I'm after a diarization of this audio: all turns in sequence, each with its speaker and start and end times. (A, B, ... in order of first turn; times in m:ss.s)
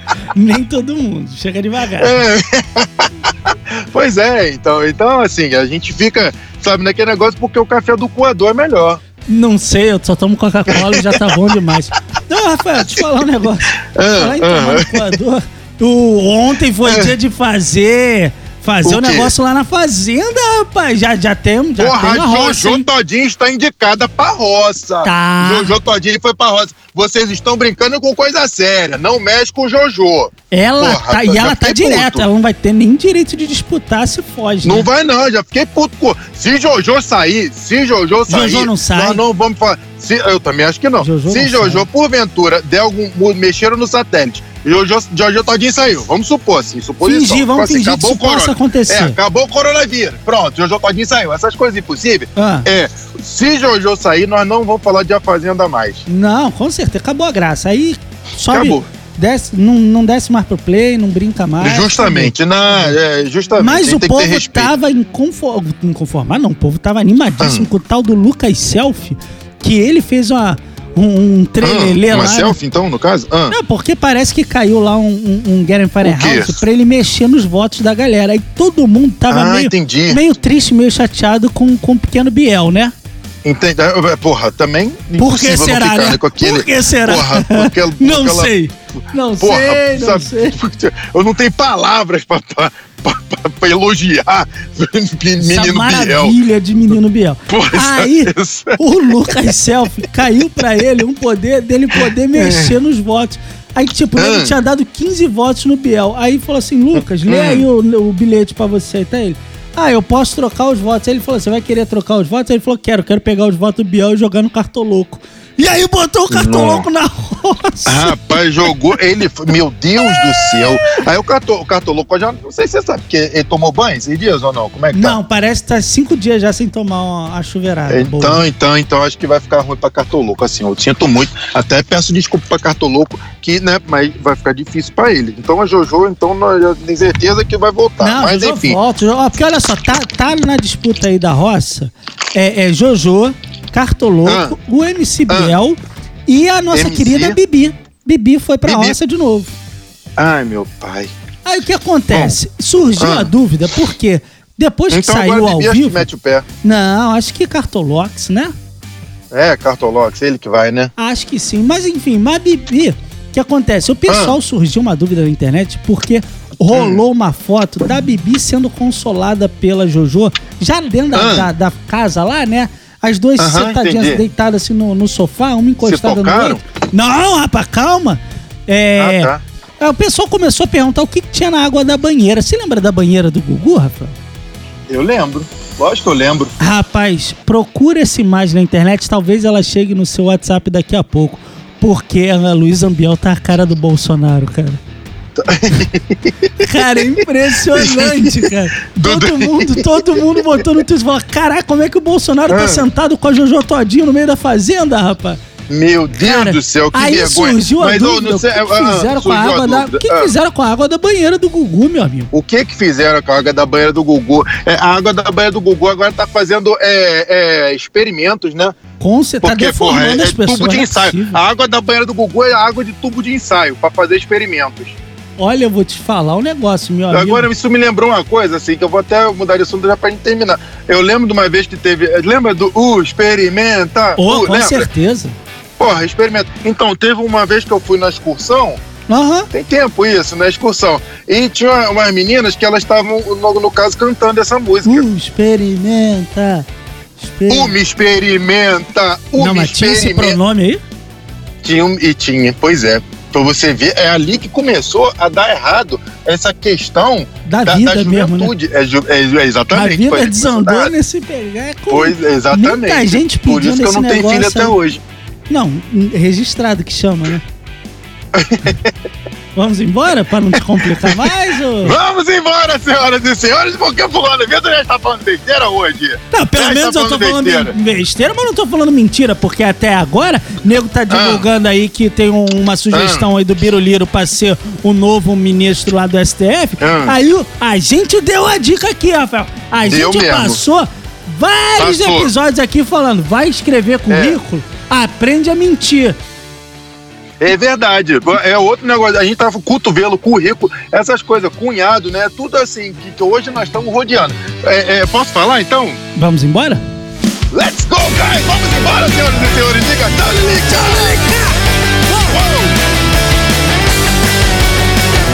0:00.3-0:02.2 A
0:02.0-0:09.0 B
0:09.3-0:22.9 A
0:10.7-0:11.6 B
0:13.9-0:15.2 B
0:16.8-0:17.2 B
0:18.8-0:19.3 B
0:21.8-0:32.3 B
0:25.0-0:25.8 A
0:30.5-0:34.9 A
0:34.6-0:56.0 B
0:38.3-0:39.2 A
0:41.0-0:41.9 A
0:47.0-0:49.2 A
0:52.4-0:52.7 A
0:56.1-1:03.0 A
0:58.5-0:58.9 B
1:01.6-1:04.8 B
1:03.6-1:12.6 A
1:07.4-1:07.7 B
1:11.6-1:13.6 B
1:13.5-1:22.9 A
1:16.0-1:16.6 B
1:19.3-1:20.2 B
1:23.4-1:28.5 B
1:25.2-1:30.6 A
1:29.4-1:36.4 B
1:35.4-1:58.7 A
1:37.5-1:39.1 B
1:41.9-1:42.8 B
1:44.2-1:44.6 B
1:47.0-1:47.7 B
1:56.3-1:56.9 B
1:57.9-2:05.2 B
2:00.0-2:01.0 A
2:04.9-2:08.4 A
2:07.9-2:18.8 B
2:18.0-2:29.5 A
2:24.2-2:24.6 B
2:25.3-2:25.6 B
2:26.7-2:27.4 B
2:28.6-2:29.0 B
2:30.2-2:31.1 B
2:31.4-2:36.1 A
2:32.1-2:32.4 B
2:33.0-2:33.3 B
2:34.9-2:36.4 B
2:36.6-2:38.5 A
2:39.3-2:40.9 B
2:41.0-3:04.1 A
2:44.1-2:44.4 B
2:46.7-2:47.0 B
2:51.1-2:51.5 B
2:53.4-2:54.2 B
2:55.8-2:56.6 B
2:59.0-2:59.4 B
3:04.9-3:06.6 B
3:06.6-3:14.8 A
3:15.4-3:20.6 B
3:16.6-3:25.4 A
3:22.5-3:22.9 B
3:25.7-3:30.3 B
3:26.2-3:32.3 A
3:32.3-3:38.8 B
3:39.0-3:41.4 A
3:39.4-3:45.0 B
3:45.4-3:47.5 A
3:47.1-3:54.9 B
3:54.2-3:55.4 A
3:55.8-3:58.8 B
3:59.1-3:59.5 A
3:59.5-4:05.0 B
4:04.8-4:06.7 A
4:07.2-4:07.8 A
4:07.5-4:10.4 B
4:09.4-4:10.8 A
4:11.6-4:20.9 B
4:17.5-4:18.5 A
4:19.7-4:24.8 A
4:21.9-4:25.0 B
4:25.5-4:27.4 A
4:28.4-4:28.9 B
4:29.6-4:32.0 A
4:30.5-4:31.2 B
4:31.8-4:37.8 B
4:36.3-4:56.2 A
4:41.1-4:41.5 B
4:42.9-4:43.2 B
4:46.8-4:47.2 B
4:49.9-4:50.6 B
4:51.8-4:52.3 B
4:54.1-4:54.4 B
4:57.4-5:06.0 B
5:06.2-5:06.8 A
5:07.5-5:11.3 B
5:10.7-5:11.6 A
5:12.3-5:12.7 B